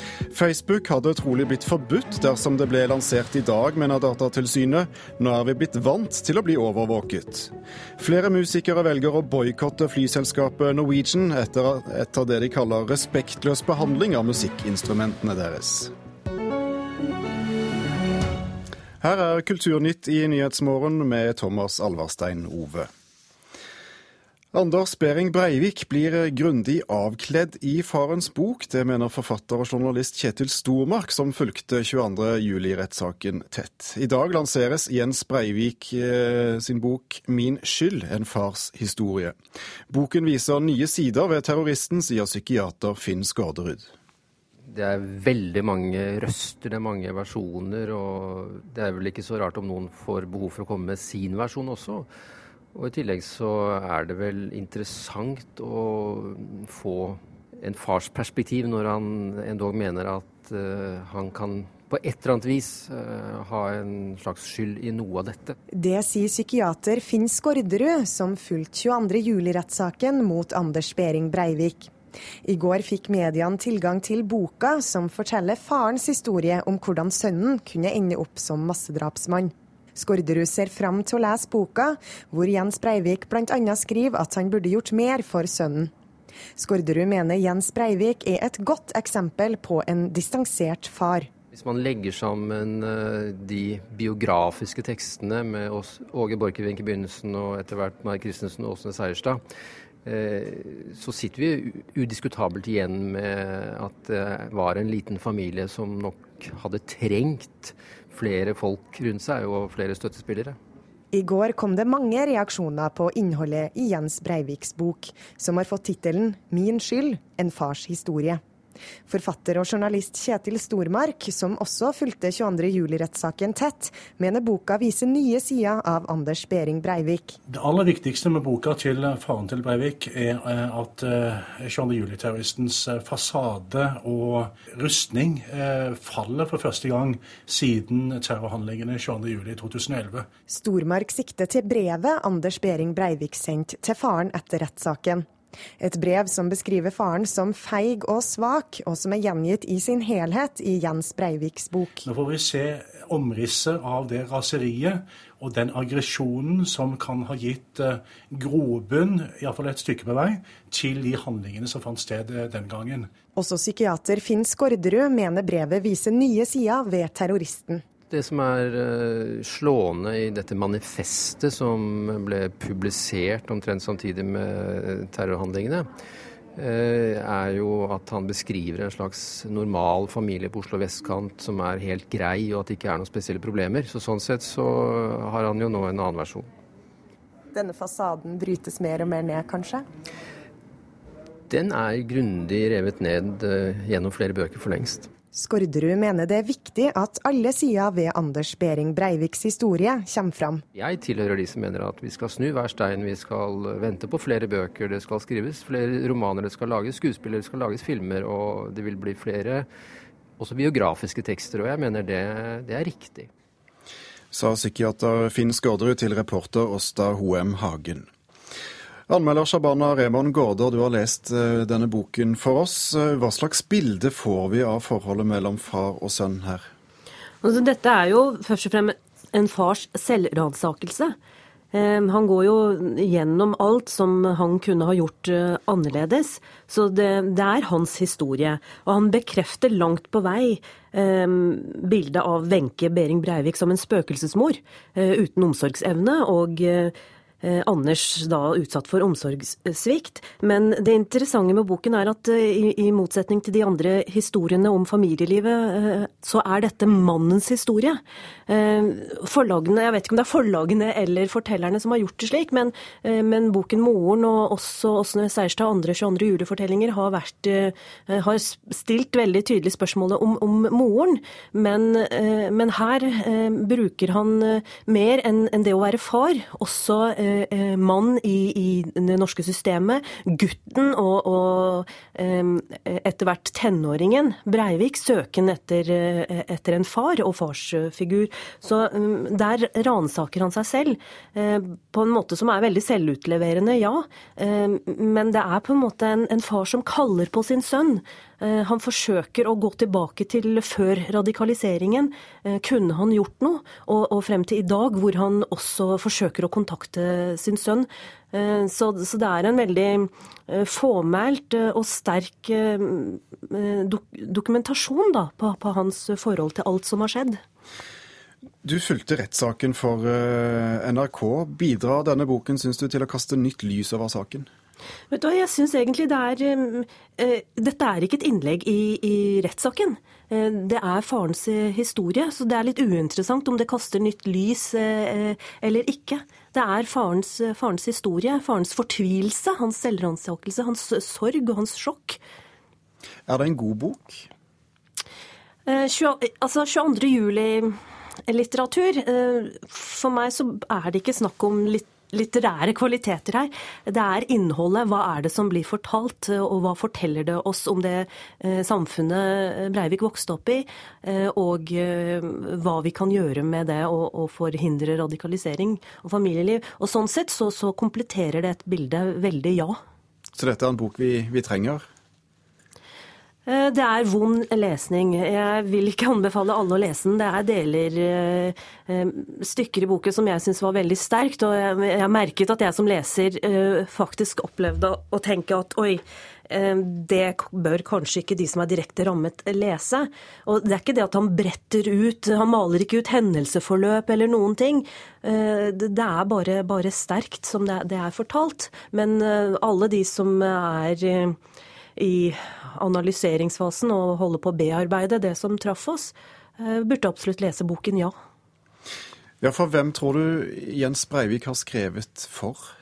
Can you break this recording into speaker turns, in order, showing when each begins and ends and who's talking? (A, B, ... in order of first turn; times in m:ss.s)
0:00.3-0:15.9 A
0:19.0-0:22.9 A
0:24.5-0:39.4 A
0:39.9-0:43.9 A
0:44.7-0:52.1 B
0:52.7-1:05.6 B
1:05.7-1:11.9 C
1:12.4-1:25.9 C
1:26.6-1:31.3 C
1:31.5-1:39.4 B
1:40.0-1:50.6 B
1:51.1-1:58.4 C
1:59.1-2:07.4 C
2:07.5-2:20.3 D
2:20.5-2:25.2 C
2:25.8-2:32.0 C
2:32.0-2:43.1 D
2:43.4-2:47.8 C
2:48.1-2:55.9 B
2:56.5-3:06.5 B
3:07.5-3:09.8 C
3:11.5-3:15.1 B
3:15.3-3:20.6 C
3:20.7-3:29.7 B
3:30.4-3:33.3 B
3:34.3-3:38.1 A
3:39.1-3:46.7 A
3:47.4-3:51.2 E
3:51.7-5:17.4 E
5:18.6-5:24.5 A
5:25.1-5:42.2 E
5:43.3-5:44.3 A
5:45.7-6:09.8 E
6:10.3-6:11.8 A
6:13.4-6:41.4 E
6:42.0-6:48.1 E
6:49.4-6:52.7 A